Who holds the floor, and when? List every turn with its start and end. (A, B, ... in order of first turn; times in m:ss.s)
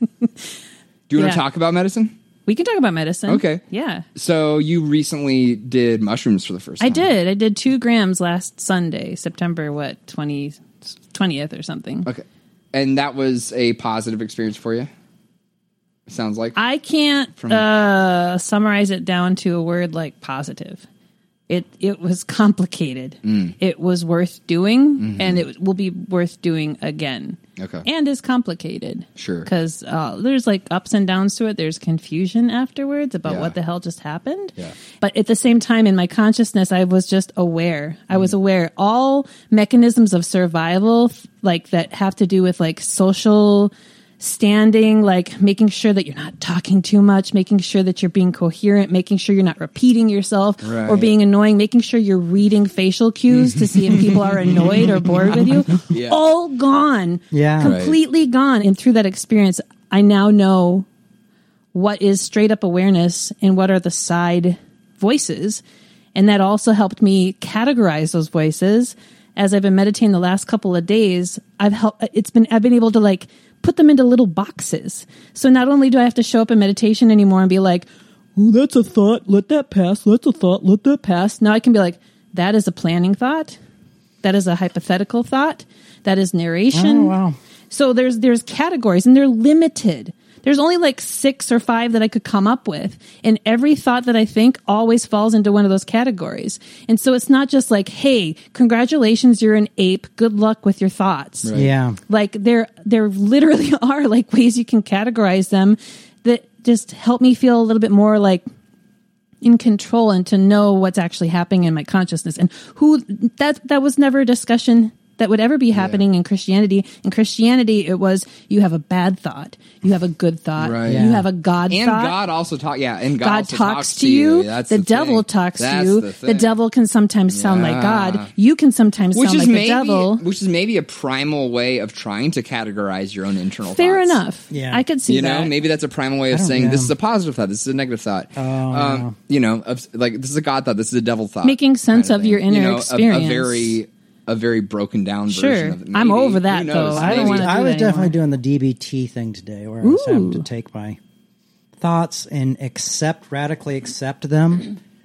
0:01.1-0:02.1 A
0:01.2-0:01.4 B
0:02.5-0:04.0 B
0:03.3-0:03.6 A
0:04.2-0:07.1 A
0:06.8-0:12.1 B
0:12.1-0:14.9 A
0:16.1-0:16.6 A
0:16.6-0:20.8 B
0:17.4-0:17.7 A
0:21.5-1:00.9 B
0:23.2-0:23.6 A
0:25.0-0:25.4 A
0:27.6-0:27.9 A
0:29.2-0:29.5 A
0:33.3-0:33.6 A
0:50.6-0:51.1 A
0:53.3-0:56.2 A
0:57.3-0:57.8 C
0:57.6-0:58.0 A
1:01.7-1:05.6 B
1:06.2-1:23.6 B
1:24.2-1:27.2 B
1:26.7-1:27.4 C
1:27.7-1:41.5 B
1:41.4-1:41.7 A
1:41.5-1:42.0 C
1:42.1-1:48.4 B
1:49.4-2:02.2 B
1:55.7-1:56.0 A
2:00.6-2:01.1 A
2:00.8-2:01.3 C
2:01.7-2:06.6 A
2:03.2-2:10.2 B
2:07.3-2:08.3 A
2:09.2-2:14.2 A
2:13.6-2:15.5 B
2:14.5-2:14.8 C
2:15.1-2:27.5 A
2:16.3-2:16.9 C
2:18.4-2:19.1 C
2:21.4-2:23.8 B
2:25.3-2:28.2 B
2:27.0-2:31.0 C
2:29.8-2:30.5 B
2:31.8-2:34.7 C